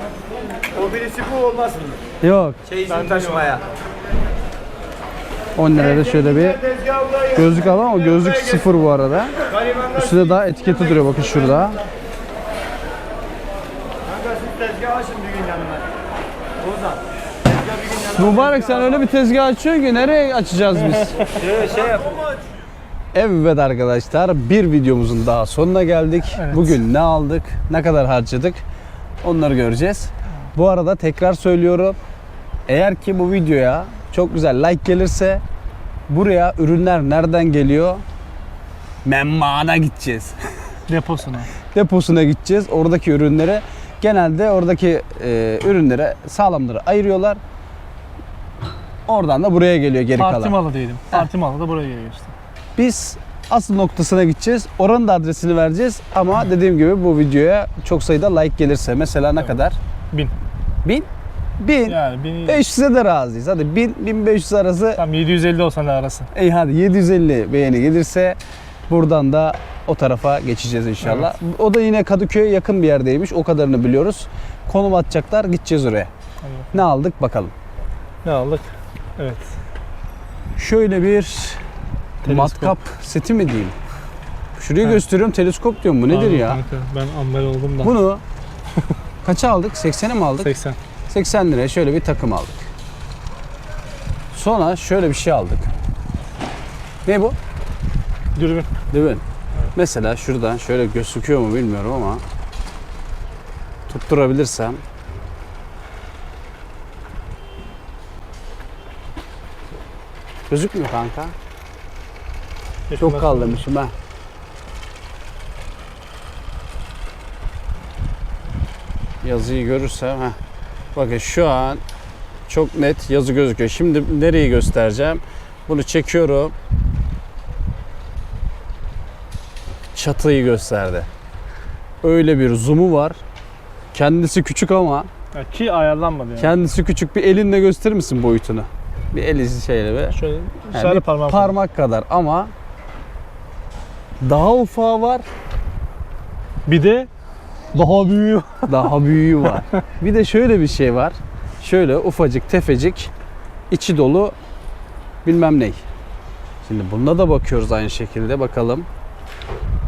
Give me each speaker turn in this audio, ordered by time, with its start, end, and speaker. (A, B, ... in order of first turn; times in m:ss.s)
0:00.7-0:02.0 A
0:02.2-0:02.6 B
0:02.8-0:03.6 A
0:02.9-0:03.5 C
0:05.6-0:06.6 B
0:07.3-0:09.3 B
0:10.0-0:11.8 B
0:14.7-0:15.8 A
0:18.1-0:21.3 B
0:20.8-0:21.4 C
0:21.4-0:22.2 A
0:23.1-0:28.6 B
0:26.4-0:26.7 C
0:29.2-0:32.0 B
0:32.7-0:35.4 B
0:36.1-0:38.0 B
0:39.0-0:40.4 B
0:40.9-0:41.5 C
0:41.7-0:47.4 B
0:49.1-0:50.6 B
0:50.2-0:52.3 C
0:52.8-0:59.8 B
1:01.6-1:05.0 B
1:01.9-1:02.6 C
1:05.0-1:06.3 C
1:06.3-1:16.1 B
1:11.0-1:11.4 C
1:16.4-1:16.7 C
1:16.7-1:17.5 B
1:18.2-1:19.5 C
1:20.6-1:21.6 B
1:22.2-1:22.8 C
1:22.2-1:23.8 B
1:24.6-1:26.6 B
1:26.1-1:27.9 C
1:27.8-1:28.2 B
1:29.2-1:30.5 B
1:30.4-1:30.8 C
1:31.1-1:32.6 B
1:34.3-1:35.7 B
1:37.0-1:37.4 B
1:38.4-1:38.7 C
1:38.9-1:39.2 B
1:39.7-1:42.2 B
1:43.9-1:44.8 B
1:50.5-1:51.3 B
1:52.9-1:53.6 C
1:53.0-1:53.9 B
1:59.2-2:00.4 B
2:01.0-2:01.8 B
2:02.5-2:06.5 B
2:10.0-2:11.1 B
2:12.0-2:13.2 B
2:13.9-2:15.1 B
2:15.3-2:16.6 C
2:16.4-2:20.2 B
2:20.1-2:21.6 C
2:20.7-2:22.5 B
2:24.2-2:25.2 B
2:26.7-2:27.1 C
2:27.7-2:28.8 C
2:28.7-2:33.1 B
2:33.7-2:34.4 B
2:35.2-2:35.8 B
2:36.6-2:38.9 B